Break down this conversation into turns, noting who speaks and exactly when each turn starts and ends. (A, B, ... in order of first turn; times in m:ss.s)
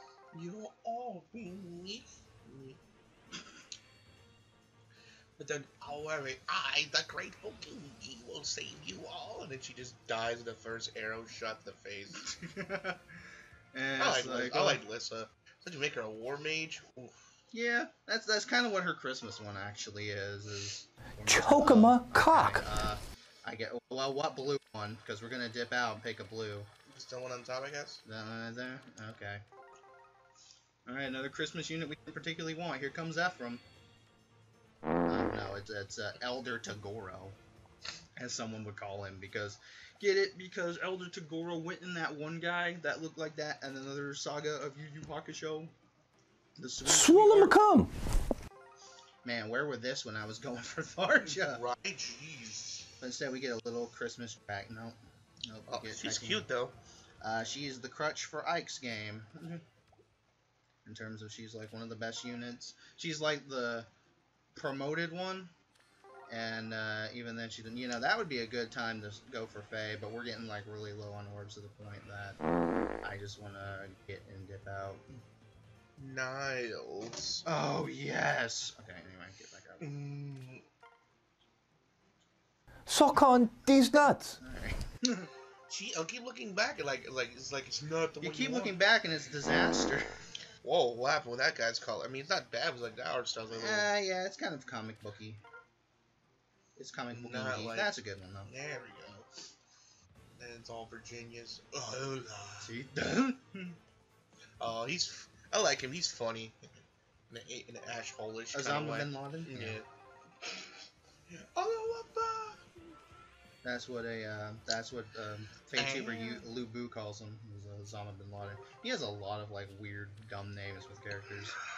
0:00.3-0:02.8 A
0:05.4-0:12.2 A
0:12.2-0:13.0 B
0:13.7-0:14.8 B
0:14.0-0:17.1 A
0:17.5-0:26.7 B
0:21.2-0:22.7 C
0:26.9-0:28.0 A
0:28.0-0:29.4 B
0:30.8-0:33.6 B
0:35.1-0:37.4 B
0:38.2-0:45.7 B
0:46.6-0:47.6 B
0:46.8-0:47.9 C
0:49.2-0:51.6 B
0:51.3-0:52.9 A
0:53.0-0:56.5 B
0:55.7-0:56.7 A
0:57.2-0:59.6 B
1:00.8-1:03.9 B
1:04.5-1:05.5 B
1:06.3-1:12.4 B
1:13.0-1:15.0 B
1:16.0-1:17.4 A
1:17.4-1:19.9 B
1:19.8-1:20.6 A
1:22.9-1:24.4 C
1:24.4-1:25.3 B
1:25.7-1:28.7 A
1:28.2-1:30.0 B
1:30.6-1:33.9 A
1:33.5-1:35.4 B
1:36.8-1:38.5 B
1:37.1-1:39.3 A
1:40.4-1:42.8 A
1:42.6-1:43.8 B
1:44.6-1:46.8 A
1:47.3-1:49.8 A
1:48.5-1:49.8 B
1:51.3-1:52.9 A
1:53.6-2:01.6 B
1:55.7-1:56.5 A